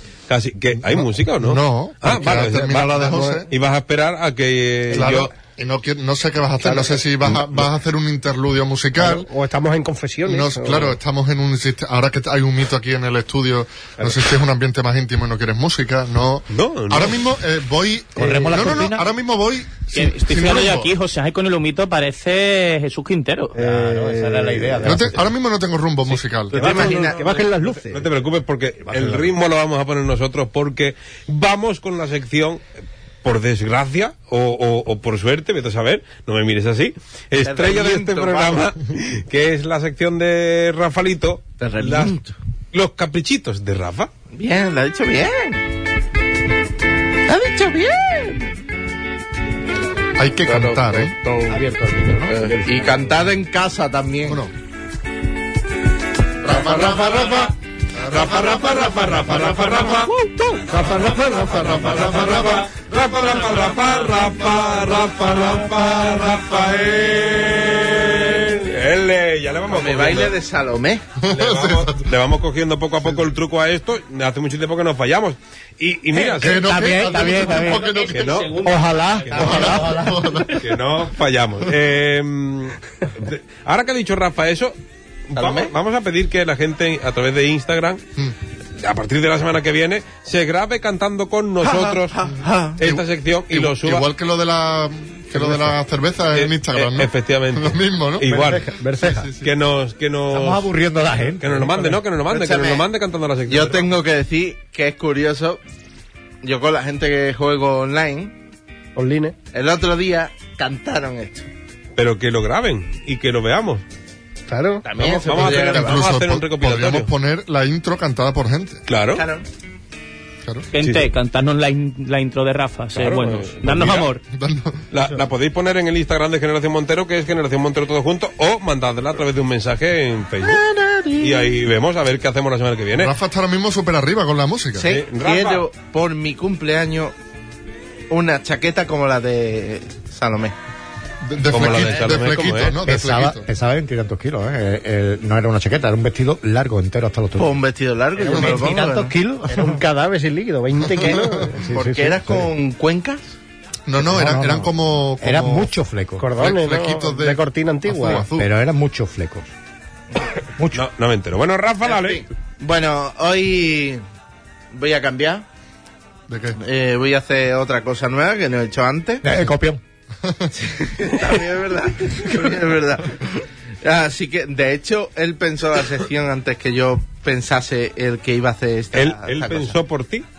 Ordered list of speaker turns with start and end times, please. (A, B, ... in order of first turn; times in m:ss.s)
0:00.3-0:05.3 A
0:00.8-0:03.5 B
0:02.9-0:03.4 C
0:04.9-0:09.3 B
0:06.6-0:07.4 C
0:09.0-0:11.0 C
0:10.2-0:20.9 B
0:16.5-0:17.2 A
0:18.2-0:19.1 D
0:19.9-0:23.5 E
0:23.5-0:25.0 C
0:23.6-0:25.3 D
0:24.8-0:26.9 B
0:26.5-0:27.9 C
0:26.5-0:28.0 F
0:26.6-0:27.4 A
0:27.9-0:32.6 A
0:33.2-0:42.1 A
0:37.4-0:38.7 F
0:41.6-0:42.3 F
0:42.7-0:44.1 A
0:44.3-0:45.6 F
0:47.3-0:48.5 F
0:50.2-0:51.1 B
0:50.4-0:51.6 F
0:51.5-0:53.1 D
0:52.3-0:54.4 F
0:54.2-0:54.5 B
0:56.4-1:00.0 B
0:58.1-1:00.1 A
1:00.7-1:10.3 A
1:00.8-1:02.7 B
1:09.7-1:11.0 F
1:11.2-1:12.1 B
1:11.3-1:16.7 A
1:16.3-1:18.3 B
1:16.5-1:17.9 D
1:17.2-1:20.0 E
1:18.1-1:18.6 A
1:18.7-1:20.2 D
1:19.3-1:20.7 B
1:20.6-1:24.8 A
1:25.3-1:28.0 A
1:25.3-1:25.7 F
1:28.8-1:32.2 A
1:31.6-1:32.8 F
1:32.8-1:34.1 A
1:32.8-1:39.5 B
1:36.3-1:38.7 A
1:38.2-1:39.3 C
1:39.4-1:40.7 A
1:40.3-1:41.9 D
1:41.4-1:43.9 A
1:42.3-1:42.8 F
1:43.5-1:45.6 F
1:46.4-1:48.3 F
1:48.9-1:49.4 C
1:49.5-1:51.4 F
1:52.0-1:53.8 A
1:54.5-1:54.8 C
1:54.8-1:56.0 F
1:55.0-1:57.1 A
1:55.4-1:58.8 B
1:58.9-1:59.2 A
1:59.1-1:59.4 F
2:00.7-2:04.2 E
2:00.8-2:01.1 A
2:02.9-2:04.1 A
2:04.3-2:04.8 B
2:04.9-2:10.6 A
2:10.4-2:11.5 F
2:11.2-2:13.1 A
2:13.0-2:14.9 B
2:14.8-2:17.1 F
2:14.8-2:15.6 A
2:18.1-2:20.5 F
2:21.2-2:23.4 B
2:21.5-2:22.8 A
2:22.8-2:27.6 D
2:27.4-2:29.1 F
2:28.2-2:29.8 D
2:28.3-2:28.7 C
2:29.5-2:31.6 C
2:31.0-2:31.3 B
2:31.3-2:32.5 D
2:31.7-2:33.2 F
2:33.9-2:35.7 B
2:34.0-2:36.2 D
2:36.2-2:38.2 C
2:36.4-2:38.5 B
2:38.4-2:39.5 D
2:40.7-2:42.2 A
2:41.8-2:44.0 F
2:44.7-2:45.4 F
2:46.3-2:46.6 B
2:46.6-2:49.2 F
2:49.2-2:49.8 D
2:50.2-2:50.5 B
2:50.6-2:59.8 F
2:58.9-3:00.2 A